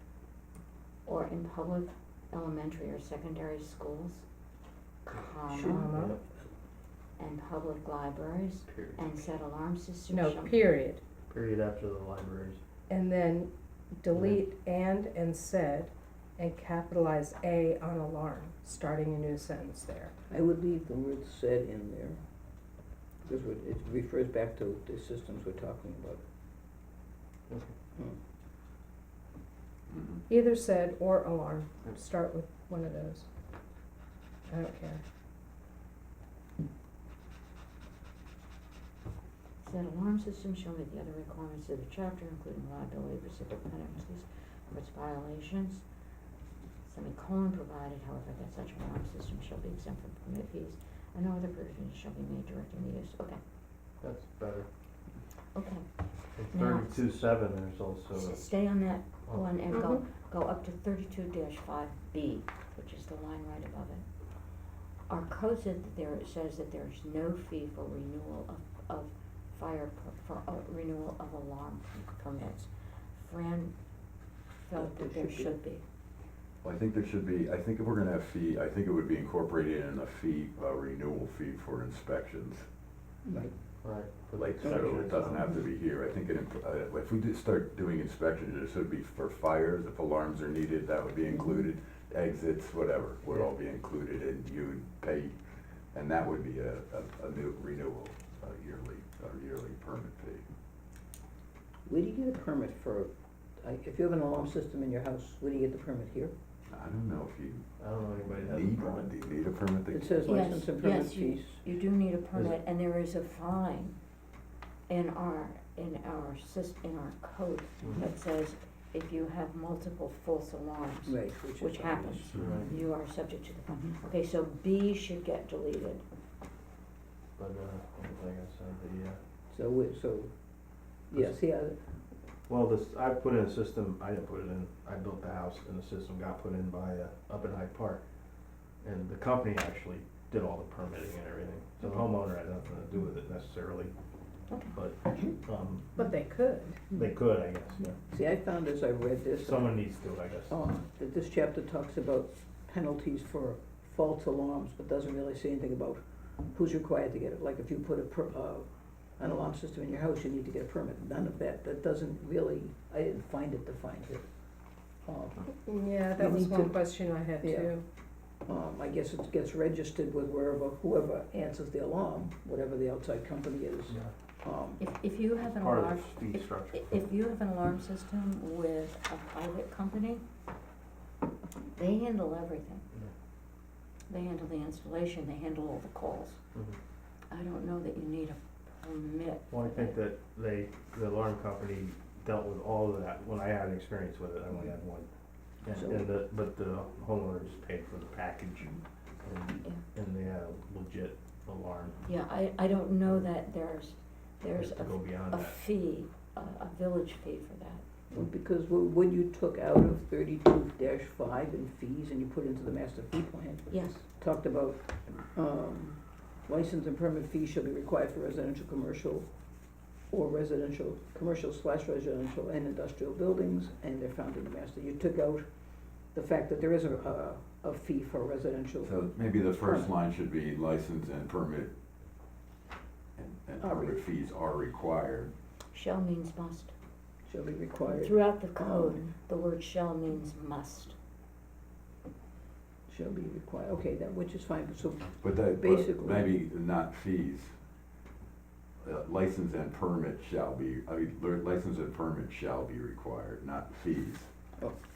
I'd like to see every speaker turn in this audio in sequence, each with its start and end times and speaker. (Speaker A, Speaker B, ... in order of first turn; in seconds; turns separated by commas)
Speaker A: 1.1-4.2, Speaker A: 5.0-6.0, Speaker B: 5.5-6.2, Speaker C: 5.6-5.9, Speaker D: 5.9-6.2, Speaker A: 7.2-10.6, Speaker D: 8.7-9.1, Speaker B: 10.1-11.0, Speaker D: 11.3-12.6, Speaker B: 12.9-20.1, Speaker D: 14.1-14.4, Speaker C: 20.3-22.2, Speaker C: 23.2-26.2, Speaker E: 29.9-30.2, Speaker B: 30.3-33.3, Speaker B: 34.5-35.0, Speaker A: 39.6-45.8, Speaker A: 46.9-53.4, Speaker D: 54.0-54.7, Speaker A: 55.5-57.1, Speaker D: 56.4-58.5, Speaker A: 58.1-64.0, Speaker B: 59.7-60.0, Speaker A: 65.1-73.7, Speaker A: 74.6-75.8, Speaker C: 74.8-75.5, Speaker E: 76.6-82.7, Speaker C: 83.2-83.5, Speaker D: 83.8-85.6, Speaker E: 84.3-95.4, Speaker C: 84.6-85.5, Speaker E: 95.9-100.4, Speaker C: 101.9-106.3, Speaker E: 106.7-107.7, Speaker D: 107.8-109.1, Speaker E: 108.3-110.2, Speaker C: 109.9-111.6, Speaker A: 110.2-114.0, Speaker A: 114.9-126.0, Speaker C: 121.1-122.4, Speaker D: 122.3-122.8, Speaker D: 127.4-129.2, Speaker C: 129.5-130.3, Speaker C: 131.1-131.8, Speaker D: 132.5-138.0, Speaker D: 138.8-143.9, Speaker A: 144.5-144.7, Speaker D: 144.7-145.9, Speaker B: 146.0-146.9, Speaker D: 146.9-148.0, Speaker C: 148.1-149.8, Speaker D: 149.4-150.6, Speaker C: 150.5-164.3, Speaker C: 165.1-166.9, Speaker B: 165.7-167.8, Speaker C: 167.4-167.7, Speaker C: 168.5-174.8, Speaker A: 174.8-180.2, Speaker D: 175.4-176.9, Speaker A: 181.8-182.9, Speaker A: 184.1-186.4, Speaker A: 187.3-190.0, Speaker D: 189.5-195.1, Speaker D: 195.6-202.0, Speaker C: 195.7-196.1, Speaker A: 202.1-207.8, Speaker D: 204.6-205.6, Speaker C: 208.1-219.3, Speaker A: 213.7-214.0, Speaker C: 220.1-225.5, Speaker C: 226.1-229.9, Speaker E: 228.8-231.7, Speaker E: 233.2-235.3, Speaker C: 233.6-234.0, Speaker A: 235.7-236.7, Speaker C: 237.3-239.1, Speaker A: 237.9-240.9, Speaker C: 242.9-246.3, Speaker E: 245.2-247.5, Speaker E: 248.8-254.3